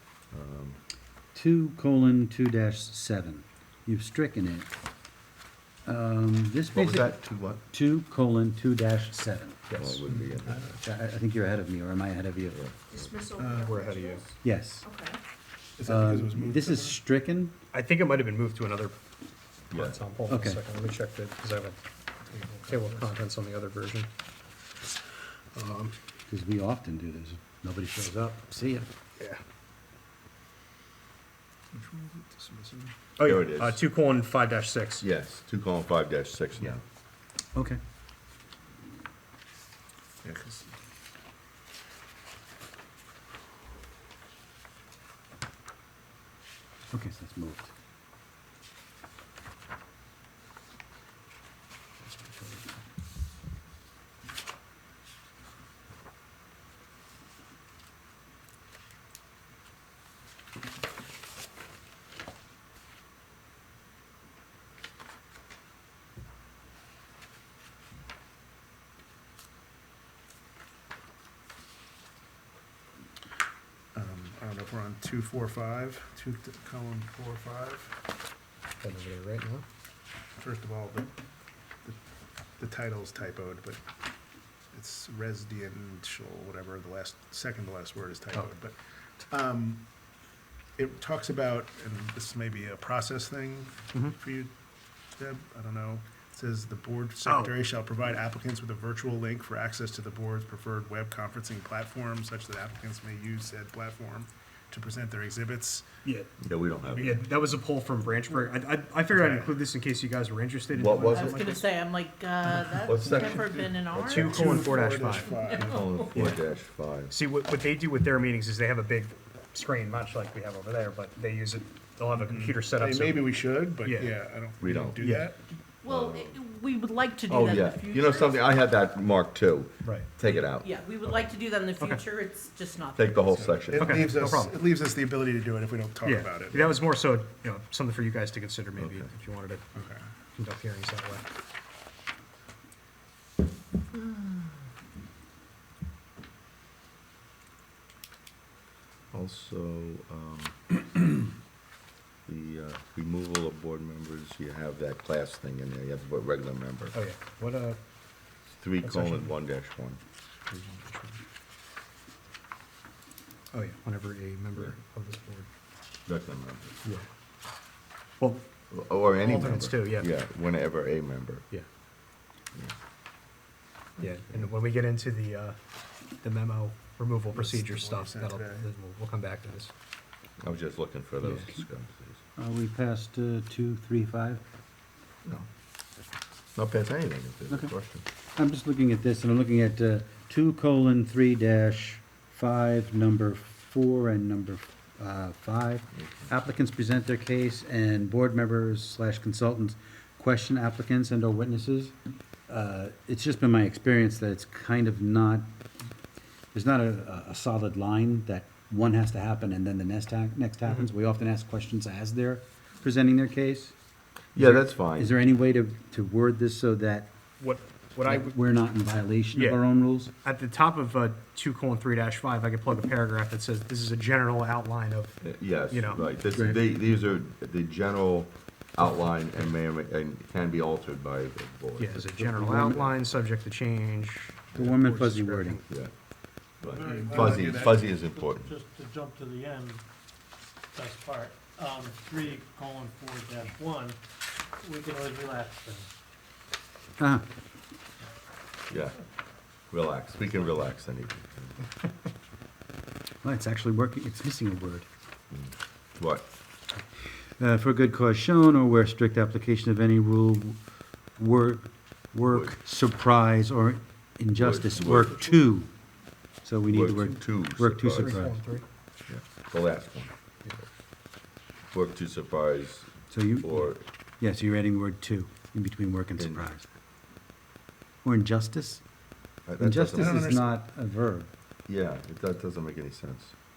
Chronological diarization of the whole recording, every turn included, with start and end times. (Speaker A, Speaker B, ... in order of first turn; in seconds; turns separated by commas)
Speaker A: 0.3-0.8, Speaker B: 1.3-4.7, Speaker B: 5.8-9.7, Speaker A: 6.7-7.6, Speaker C: 9.7-10.0, Speaker A: 9.7-10.8, Speaker B: 10.8-12.6, Speaker A: 12.5-13.2, Speaker D: 12.9-14.2, Speaker C: 13.4-14.3, Speaker E: 13.4-14.1, Speaker B: 14.4-14.9, Speaker D: 14.8-15.2, Speaker E: 15.8-17.0, Speaker B: 15.8-17.6, Speaker C: 17.7-18.9, Speaker A: 19.7-20.0, Speaker C: 19.7-21.8, Speaker B: 20.3-20.6, Speaker E: 22.2-23.2, Speaker C: 22.7-24.1, Speaker E: 25.6-25.9, Speaker B: 26.3-28.9, Speaker E: 31.7-33.0, Speaker C: 33.2-35.0, Speaker A: 33.2-33.9, Speaker A: 35.0-36.8, Speaker B: 37.5-37.8, Speaker E: 40.2-40.7, Speaker B: 46.9-47.7, Speaker C: 52.0-52.7, Speaker E: 74.0-78.0, Speaker C: 78.8-79.7, Speaker E: 80.4-81.1, Speaker E: 82.6-83.8, Speaker E: 84.7-89.8, Speaker E: 90.8-94.5, Speaker E: 95.2-105.8, Speaker C: 97.2-97.6, Speaker C: 106.0-106.3, Speaker A: 106.4-107.3, Speaker C: 106.8-111.6, Speaker E: 109.1-109.6, Speaker A: 110.7-111.5, Speaker D: 111.1-116.1, Speaker A: 112.8-114.6, Speaker C: 114.0-115.4, Speaker E: 114.1-115.8, Speaker A: 115.6-117.1, Speaker C: 116.1-116.4, Speaker C: 117.1-124.1, Speaker E: 122.2-125.5, Speaker A: 124.6-125.0, Speaker C: 125.0-125.2, Speaker D: 125.8-128.6, Speaker A: 125.9-126.4, Speaker A: 127.3-130.7, Speaker C: 129.8-130.1, Speaker D: 130.5-133.4, Speaker C: 131.8-132.0, Speaker A: 133.0-134.2, Speaker E: 133.3-136.8, Speaker C: 133.7-134.6, Speaker C: 136.0-141.3, Speaker A: 138.8-139.1, Speaker A: 149.1-151.0, Speaker A: 152.3-157.0, Speaker C: 156.9-157.8, Speaker A: 158.6-160.0, Speaker C: 158.8-159.3, Speaker C: 160.5-161.2, Speaker C: 163.5-165.5, Speaker A: 166.1-166.8, Speaker C: 168.2-168.4, Speaker A: 168.7-171.5, Speaker C: 169.2-170.1, Speaker A: 174.0-174.5, Speaker C: 174.0-175.6, Speaker C: 176.2-179.7, Speaker E: 177.3-178.7, Speaker A: 180.4-182.2, Speaker B: 182.4-184.4, Speaker A: 186.6-188.1, Speaker B: 188.4-201.9, Speaker A: 195.9-196.3, Speaker B: 202.5-205.5, Speaker B: 206.5-213.8, Speaker A: 214.3-215.1, Speaker B: 214.4-217.1, Speaker C: 217.4-218.4, Speaker B: 218.0-220.1, Speaker C: 219.3-219.6, Speaker C: 220.2-226.0, Speaker A: 225.2-232.0, Speaker B: 226.3-226.6, Speaker C: 231.8-235.7, Speaker B: 232.0-232.9, Speaker B: 234.6-235.6, Speaker A: 236.6-238.6, Speaker F: 236.7-239.8, Speaker E: 236.8-237.8, Speaker F: 240.7-244.0, Speaker F: 244.6-245.9, Speaker B: 247.0-247.2, Speaker A: 248.7-249.0, Speaker A: 249.7-251.6, Speaker B: 253.2-254.9, Speaker A: 255.3-256.3, Speaker B: 257.4-260.6, Speaker B: 261.2-265.7, Speaker A: 262.3-262.6, Speaker A: 264.4-265.2, Speaker B: 266.4-268.4, Speaker A: 266.7-268.2, Speaker C: 267.9-268.6, Speaker A: 269.1-270.1, Speaker A: 271.7-273.8, Speaker B: 273.1-276.7, Speaker A: 276.2-276.5, Speaker B: 278.0-278.8, Speaker A: 279.5-280.4, Speaker B: 279.6-281.3, Speaker E: 280.0-280.5, Speaker A: 281.7-283.3